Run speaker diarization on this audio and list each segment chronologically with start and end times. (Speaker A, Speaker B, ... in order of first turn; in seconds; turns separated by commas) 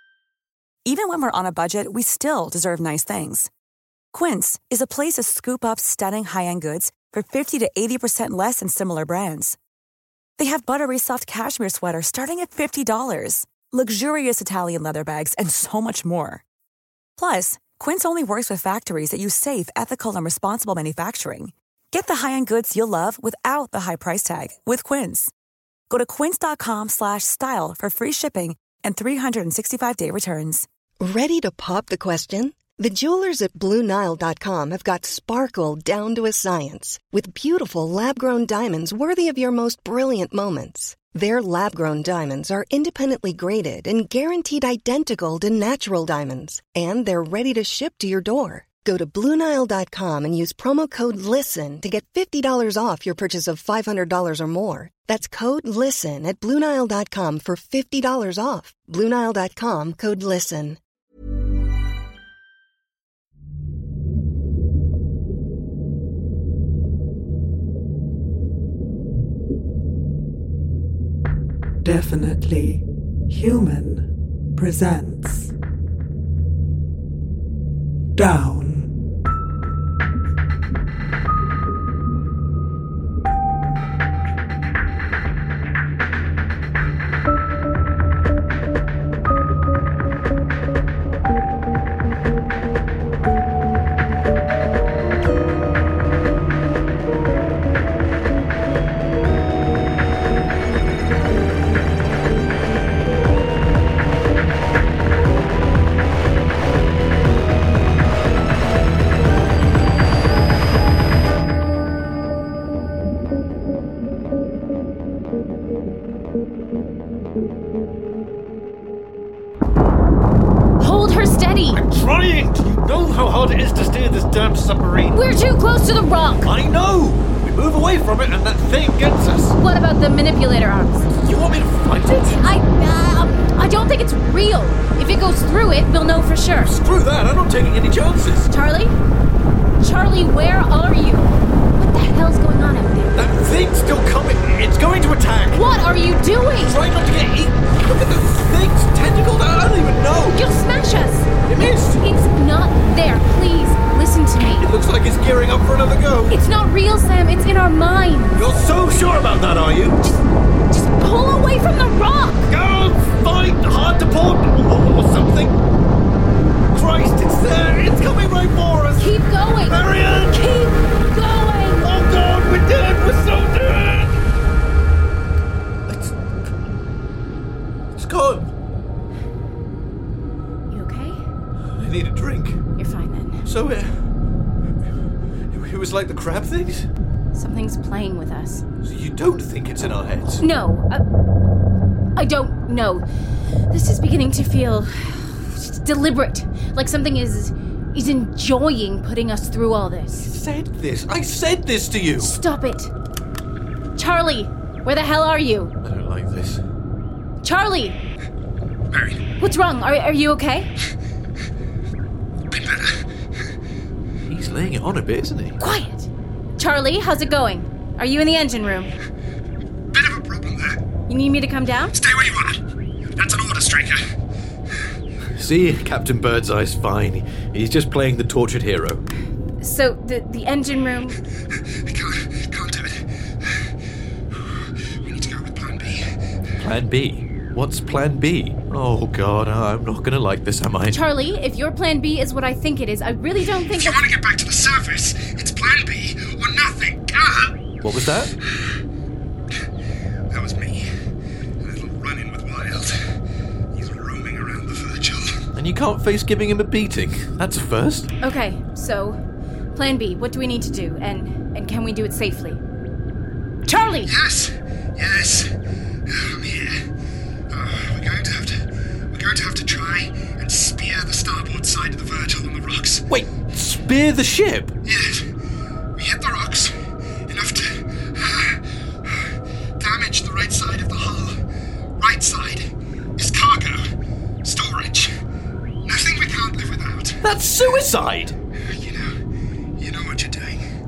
Speaker A: 0.9-3.5, Speaker A: 4.1-9.6, Speaker A: 10.4-16.4, Speaker A: 17.2-25.3, Speaker A: 25.9-30.7, Speaker B: 31.0-60.8, Speaker C: 71.8-75.5, Speaker C: 78.2-78.9, Speaker D: 120.8-121.8, Speaker E: 121.7-125.2, Speaker D: 125.1-126.5, Speaker E: 126.4-129.6, Speaker D: 129.6-131.1, Speaker E: 131.1-132.4, Speaker D: 132.4-136.7, Speaker E: 136.6-138.5, Speaker D: 138.5-138.9, Speaker D: 139.8-143.2, Speaker E: 143.1-145.6, Speaker D: 145.5-146.8, Speaker E: 146.6-150.4, Speaker D: 150.3-151.3, Speaker E: 151.5-152.0, Speaker D: 152.0-154.7, Speaker E: 154.6-156.4, Speaker D: 156.3-158.5, Speaker E: 158.3-160.0, Speaker D: 160.0-162.5, Speaker E: 162.5-165.6, Speaker E: 166.7-170.5, Speaker D: 169.0-171.9, Speaker E: 171.8-174.2, Speaker E: 175.9-176.3, Speaker E: 178.0-178.5, Speaker D: 180.7-181.2, Speaker E: 181.7-182.6, Speaker D: 182.8-183.4, Speaker E: 183.4-183.9, Speaker E: 185.5-186.9, Speaker D: 187.3-188.6, Speaker E: 188.8-190.4, Speaker D: 190.4-191.0, Speaker D: 192.2-193.1, Speaker D: 193.7-200.3, Speaker E: 200.3-202.4, Speaker D: 202.2-202.9, Speaker D: 204.0-205.7, Speaker E: 205.8-206.6, Speaker D: 207.4-208.0, Speaker F: 208.9-209.2, Speaker D: 209.4-210.7, Speaker F: 212.5-213.0, Speaker E: 214.3-215.6, Speaker D: 215.6-216.1, Speaker D: 216.6-218.9, Speaker F: 219.9-220.8, Speaker D: 221.1-221.9, Speaker F: 221.9-222.6, Speaker F: 223.2-224.0, Speaker E: 225.4-229.0, Speaker D: 229.6-231.2, Speaker F: 231.8-233.1, Speaker F: 235.0-236.1, Speaker E: 236.6-241.0, Speaker D: 240.9-244.1, Speaker F: 243.7-247.6, Speaker E: 247.8-248.3, Speaker F: 250.3-250.9, Speaker F: 251.6-253.0, Speaker F: 253.8-255.5, Speaker E: 255.6-258.1, Speaker D: 258.2-259.2, Speaker D: 259.8-262.6, Speaker D: 263.7-264.1, Speaker F: 264.1-265.5, Speaker F: 266.1-266.8, Speaker F: 267.5-273.1, Speaker E: 273.1-274.7, Speaker F: 274.9-275.2, Speaker F: 276.0-276.8, Speaker F: 277.3-278.6, Speaker F: 279.8-281.4, Speaker F: 282.0-283.8, Speaker F: 284.4-285.1, Speaker F: 285.9-287.2, Speaker E: 287.2-288.4, Speaker F: 288.7-289.1, Speaker F: 289.8-290.6